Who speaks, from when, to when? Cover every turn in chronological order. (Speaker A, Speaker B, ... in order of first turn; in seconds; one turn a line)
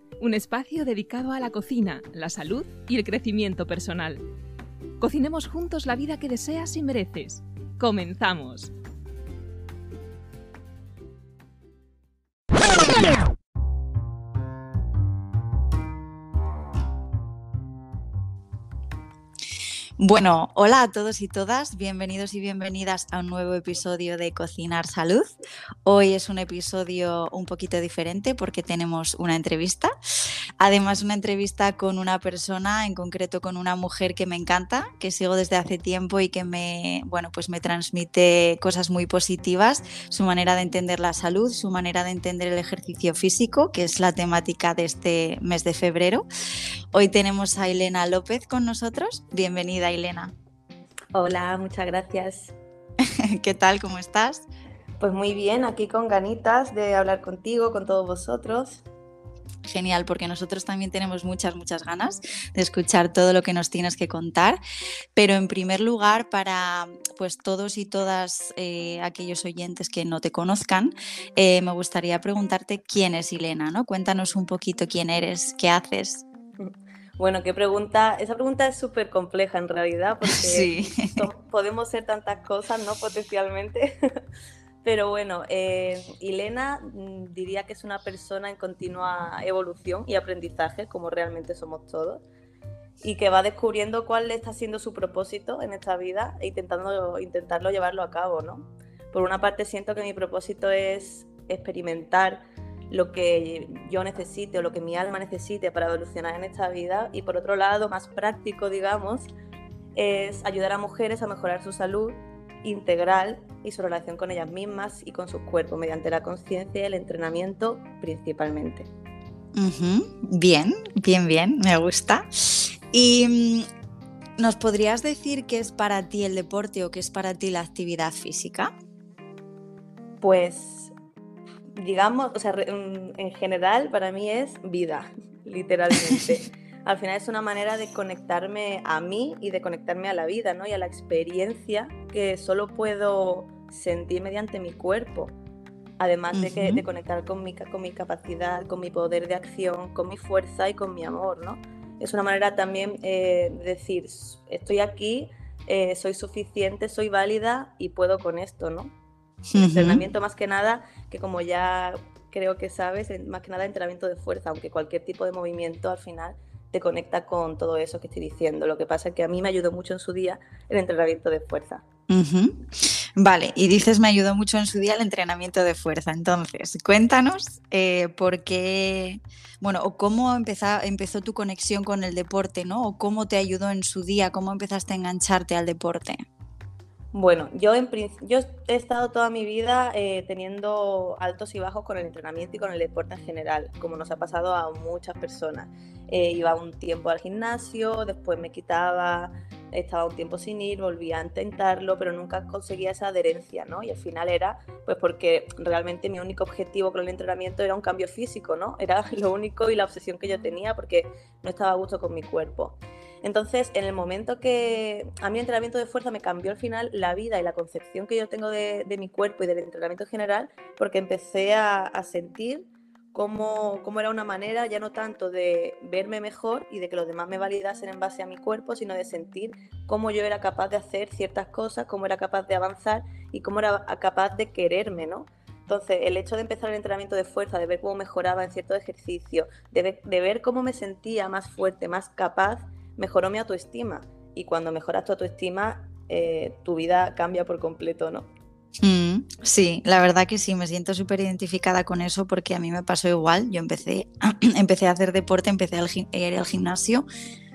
Speaker A: 0.2-4.2
Speaker A: 5.0-8.7
Speaker B: 20.0-29.9
Speaker B: 30.6-46.3
Speaker B: 46.9-50.3
Speaker C: 51.1-52.5
Speaker B: 53.0-54.5
Speaker C: 55.0-58.8
Speaker B: 59.6-64.6
Speaker B: 65.2-76.2
Speaker C: 76.6-83.9
Speaker B: 80.3-81.3
Speaker C: 84.8-92.2
Speaker C: 93.0-109.3
Speaker C: 110.0-118.9
Speaker B: 119.5-123.7
Speaker B: 124.4-128.7
Speaker C: 130.2-130.9
Speaker C: 131.8-145.3
Speaker C: 146.0-158.9
Speaker B: 146.3-146.8
Speaker B: 159.5-160.0
Speaker C: 159.6-171.8
Speaker B: 172.1-186.2
Speaker C: 187.1-248.3
Speaker B: 248.8-257.1